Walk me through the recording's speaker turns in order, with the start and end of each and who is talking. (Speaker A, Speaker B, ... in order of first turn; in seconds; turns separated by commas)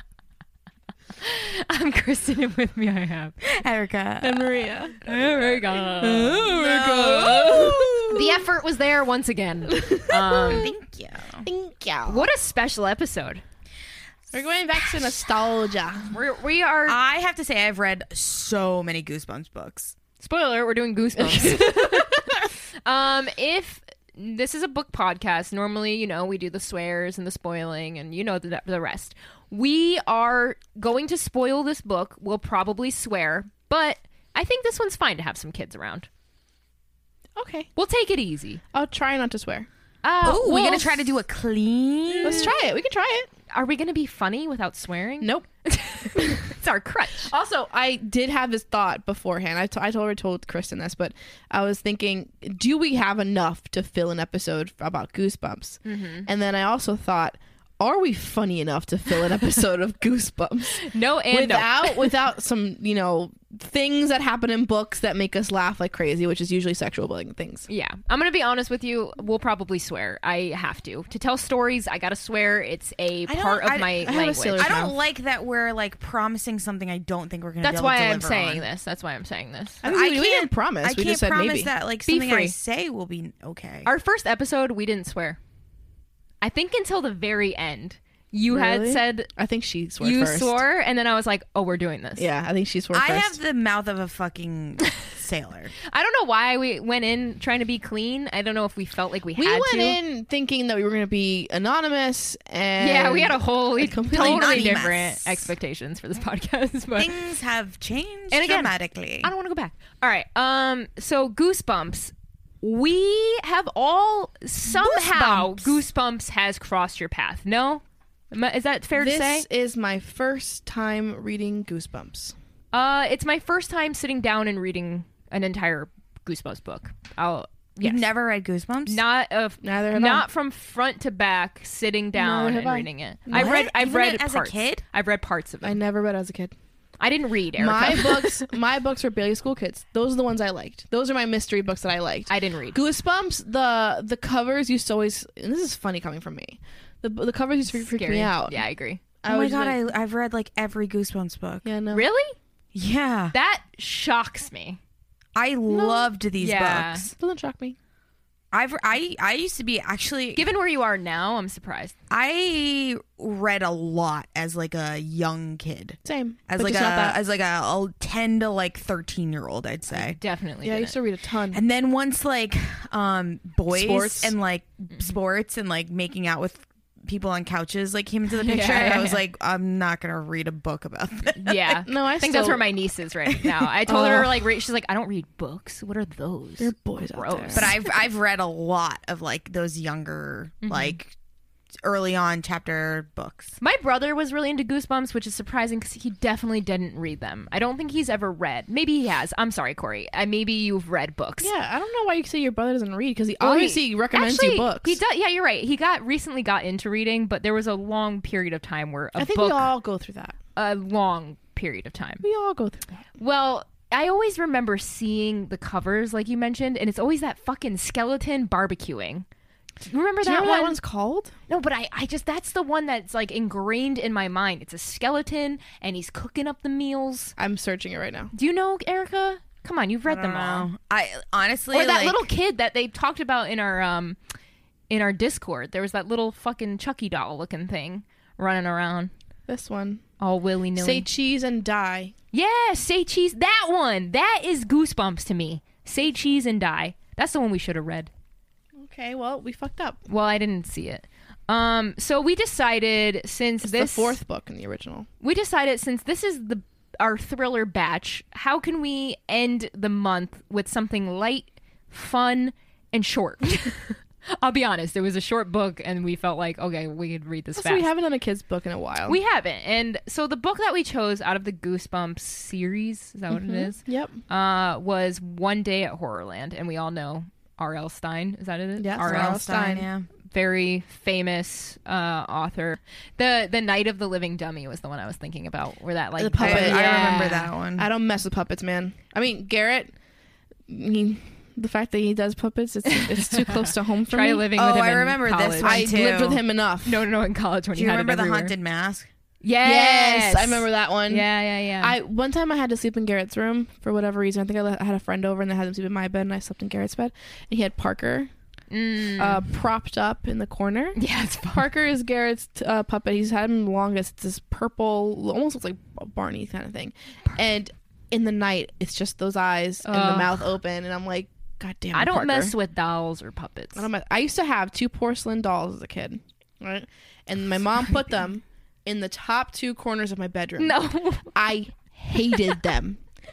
Speaker A: 1.2-3.4, Speaker B: 3.4-8.5, Speaker C: 4.2-5.0, Speaker A: 5.1-10.7, Speaker C: 9.7-10.7, Speaker B: 10.5-11.5, Speaker C: 11.4-12.3, Speaker A: 12.1-13.4, Speaker C: 14.3-16.1, Speaker A: 16.1-17.0, Speaker B: 16.9-19.9, Speaker A: 20.2-22.3, Speaker C: 21.3-22.3, Speaker A: 22.9-36.1, Speaker C: 37.4-37.7, Speaker A: 37.8-38.6, Speaker C: 38.7-39.7, Speaker A: 40.0-41.0, Speaker B: 40.2-42.6, Speaker A: 42.1-42.5, Speaker C: 42.2-43.3, Speaker A: 43.5-47.3, Speaker C: 45.2-45.5, Speaker C: 47.2-67.7, Speaker A: 55.9-56.3, Speaker A: 60.7-62.1, Speaker A: 67.7-74.7, Speaker B: 73.3-78.7, Speaker C: 74.0-75.0, Speaker A: 77.6-79.8, Speaker C: 79.8-81.7, Speaker B: 79.8-83.9, Speaker A: 82.1-82.5, Speaker A: 83.8-85.4, Speaker A: 86.4-89.3, Speaker C: 88.5-90.6, Speaker A: 90.0-92.3, Speaker C: 92.2-93.4, Speaker B: 92.9-95.7, Speaker A: 95.9-100.0, Speaker C: 99.4-104.8, Speaker A: 102.8-107.2, Speaker B: 104.1-105.5, Speaker B: 107.0-109.3, Speaker A: 108.3-119.5, Speaker B: 114.8-115.8, Speaker C: 119.0-122.3, Speaker A: 122.7-128.1, Speaker B: 127.8-129.0, Speaker A: 128.9-135.8, Speaker C: 129.6-130.3, Speaker C: 132.1-133.6, Speaker B: 133.3-134.8, Speaker C: 135.6-136.5, Speaker A: 137.0-138.4, Speaker C: 137.6-148.6, Speaker A: 142.3-142.8, Speaker A: 147.7-149.0, Speaker C: 149.2-149.8, Speaker B: 149.3-151.7, Speaker C: 151.6-152.1, Speaker A: 151.9-152.4, Speaker B: 152.7-153.3, Speaker A: 153.3-154.8, Speaker B: 155.4-157.1, Speaker C: 155.7-156.1, Speaker A: 156.4-157.1, Speaker C: 157.2-157.8, Speaker B: 158.5-160.4, Speaker A: 160.4-161.9, Speaker B: 162.1-170.2, Speaker C: 166.1-167.2, Speaker A: 169.9-171.0, Speaker C: 170.6-171.6, Speaker B: 171.5-181.8, Speaker C: 173.7-174.3, Speaker A: 178.4-179.2, Speaker C: 178.7-179.1, Speaker A: 181.4-187.9, Speaker C: 181.9-182.7, Speaker C: 183.9-184.4, Speaker C: 186.6-187.8, Speaker B: 187.5-191.2, Speaker A: 190.6-191.0, Speaker B: 191.8-193.6, Speaker A: 193.6-201.5, Speaker C: 201.4-205.0, Speaker A: 203.4-209.7, Speaker C: 209.2-210.4, Speaker A: 210.6-212.3, Speaker C: 212.2-212.9, Speaker A: 213.2-219.3, Speaker A: 219.9-220.8, Speaker C: 220.2-221.3, Speaker A: 221.5-227.3, Speaker C: 227.4-228.3, Speaker A: 228.3-230.7, Speaker B: 230.1-232.3, Speaker A: 231.7-234.2, Speaker A: 234.9-239.1, Speaker C: 239.5-240.0, Speaker A: 240.2-241.1, Speaker C: 240.8-242.1, Speaker A: 242.3-248.1, Speaker C: 248.8-250.0, Speaker A: 250.1-254.2, Speaker C: 253.6-255.1, Speaker A: 255.2-267.9, Speaker C: 267.6-269.2, Speaker A: 269.1-279.4, Speaker C: 273.3-274.2, Speaker C: 278.8-279.9, Speaker B: 279.0-280.1, Speaker A: 280.3-287.5, Speaker C: 286.2-289.9, Speaker B: 286.4-287.9, Speaker C: 290.7-294.5, Speaker A: 292.9-295.9, Speaker B: 294.6-296.4, Speaker C: 295.6-297.0, Speaker A: 296.9-298.6, Speaker B: 297.8-299.1, Speaker A: 299.4-302.0, Speaker C: 299.6-301.3, Speaker C: 301.8-308.3, Speaker A: 308.7-309.4, Speaker C: 309.2-311.0, Speaker A: 311.0-311.7, Speaker C: 311.5-322.5, Speaker A: 319.9-320.5, Speaker A: 321.9-323.9, Speaker C: 323.8-330.8, Speaker A: 330.6-331.3, Speaker C: 331.3-333.0